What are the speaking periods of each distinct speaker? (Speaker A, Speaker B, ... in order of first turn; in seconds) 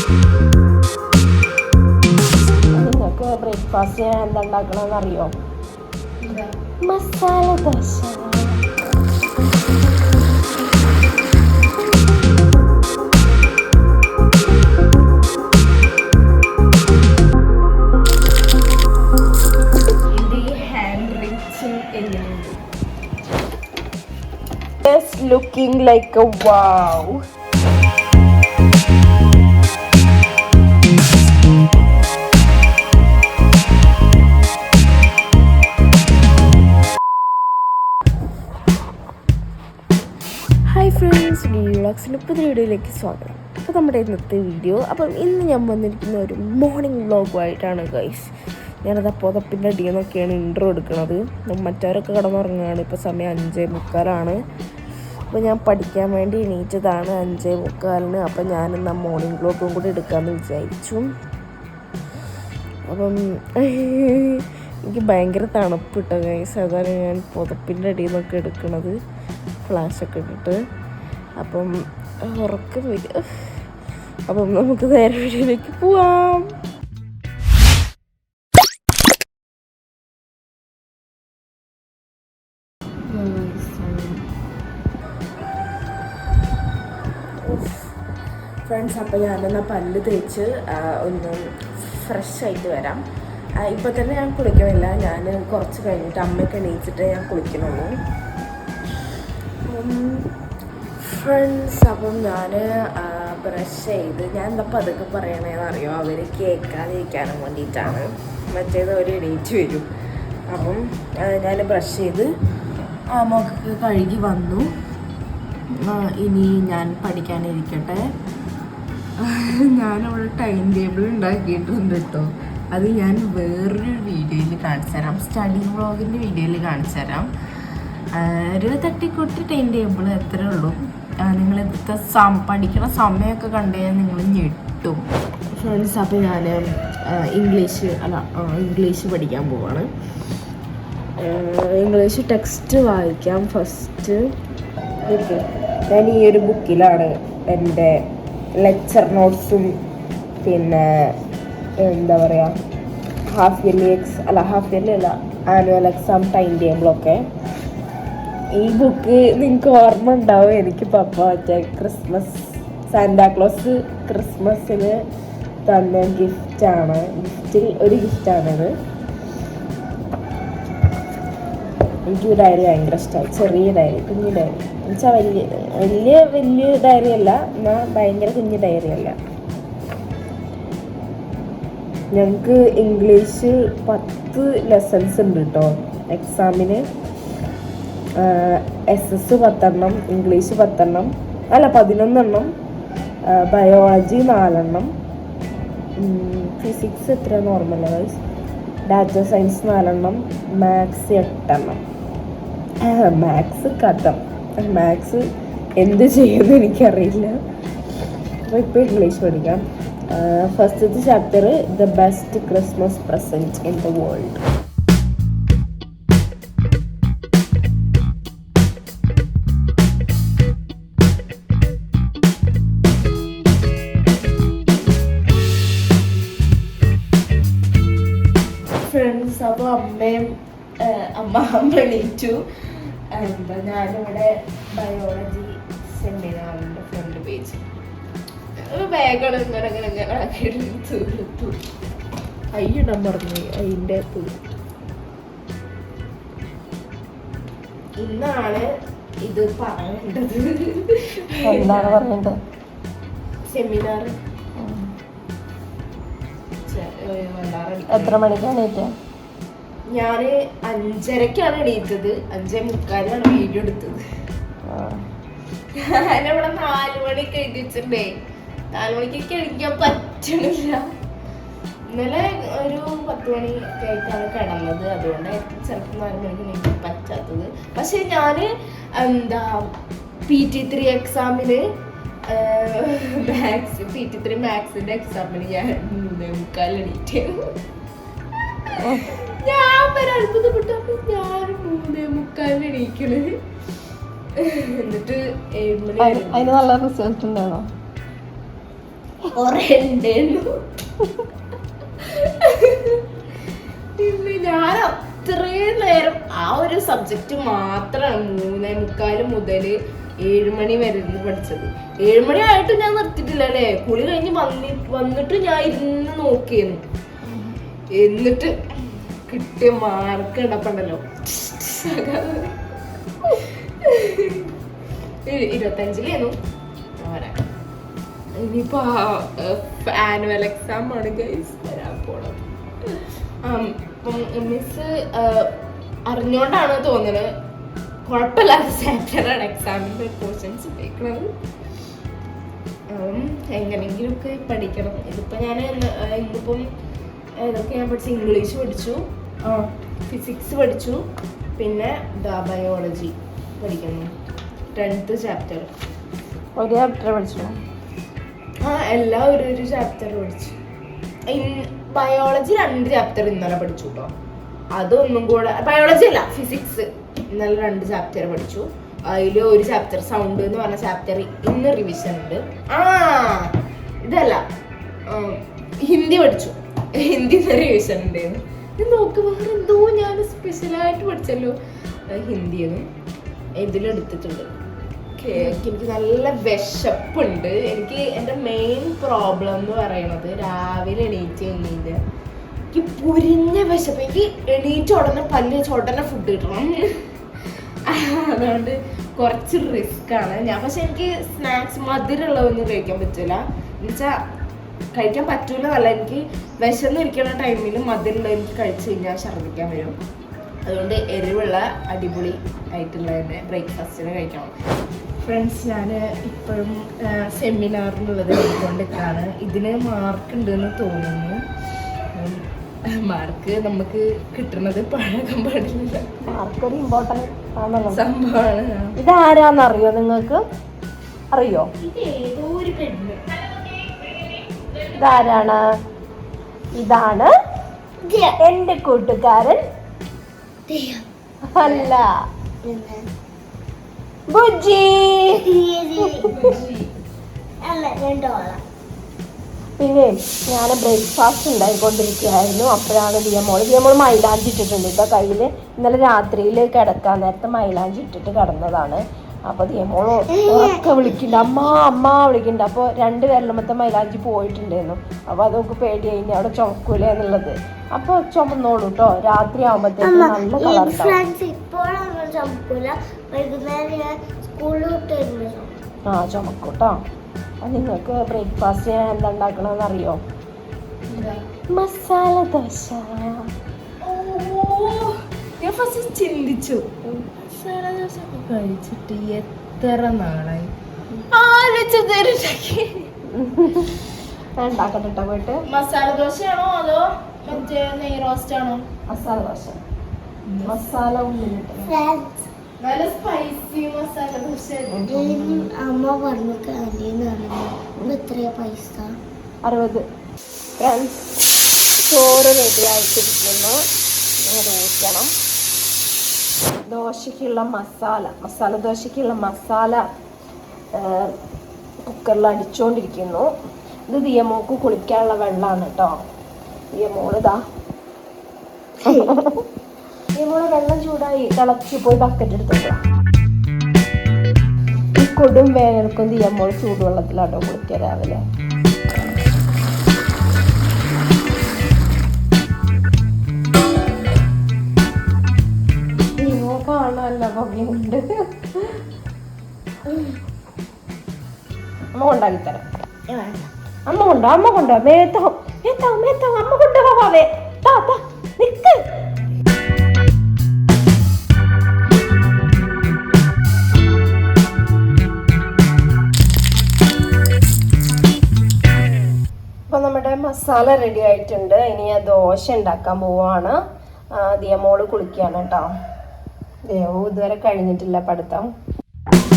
Speaker A: 2.7-5.3, 6.9-8.7, 251.5-252.3, 254.6-254.9, 257.9-258.9, 264.7-265.0, 288.8-289.1, 296.0-297.6, 356.6-357.6, 385.3-385.6, 426.3-428.0, 429.0-430.4, 431.3-431.7, 435.0-435.6, 436.7-437.3, 438.4-439.6, 441.5-442.1, 444.3-445.4, 446.0-446.5, 449.8-471.2, 476.1-477.0, 477.6-480.2, 481.7-483.4, 493.3-493.9, 494.6-495.6, 499.1-499.8, 500.6-502.0, 509.6-510.0, 510.8-511.3, 512.0-513.8, 514.4-515.3, 516.9-520.0, 521.0-521.3, 522.0-523.5, 524.1-526.1, 526.9-527.6, 529.1-529.6, 530.4-533.0, 535.1-538.4, 546.4-549.0, 552.1-552.8, 554.1-559.0, 569.9-573.8, 574.4-575.9, 576.9-578.7
Speaker B: 6.2-6.5, 20.1-22.6, 24.8-27.2, 40.7-54.4, 55.3-61.1, 62.9-68.9, 69.7-70.6, 71.4-71.7, 72.2-73.5, 74.3-76.5, 83.1-84.2, 87.4-87.7, 88.6-93.0, 93.6-98.0, 99.7-100.3, 101.0-109.9, 110.5-112.3, 113.1-114.7, 115.8-118.1, 119.2-127.3, 128.1-135.0, 135.6-139.9, 141.2-144.2, 145.0-147.9, 148.6-149.7, 150.4-151.1, 151.8-152.5, 153.3-157.2, 158.6-165.0, 165.6-168.7, 172.0-179.2, 182.1-186.8, 188.2-192.5, 193.3-194.9, 196.0-198.2, 198.8-201.8, 202.8-207.4, 208.5-214.4, 228.7-237.6, 238.7-241.6, 242.5-244.3, 248.0-248.7, 249.2-252.0, 253.5-254.2, 256.7-258.2, 259.9-264.0, 265.8-268.1, 268.7-270.9, 271.9-279.7, 280.3-281.6, 282.3-287.4, 288.7-293.3, 294.4-296.5, 299.3-300.6, 302.0-303.0, 304.0-316.8, 317.9-322.6, 323.2-324.5, 325.2-326.4, 327.0-327.4, 328.4-335.5, 336.1-337.3, 338.1-341.3, 342.9-346.6, 347.4-351.0, 351.6-354.1, 354.7-355.7, 358.6-360.6, 361.3-364.1, 364.7-374.4, 375.1-381.6, 382.1-382.9, 383.6-384.5, 385.2-392.0, 392.7-396.9, 397.9-404.1, 404.9-410.0, 410.6-414.5, 415.2-421.4, 422.1-426.3, 427.9-428.9, 431.8-433.2, 446.3-446.9, 481.1-481.4, 484.0-490.7, 491.3-493.1, 495.7-498.8, 500.5-500.7, 502.8-505.7, 553.3-553.5
Speaker C: 438.0-438.4, 440.7-441.1, 442.6-443.1, 445.4-446.5, 447.6-448.6, 460.3-460.9, 470.0-475.8, 501.9-502.3, 505.1-509.1, 529.0-529.3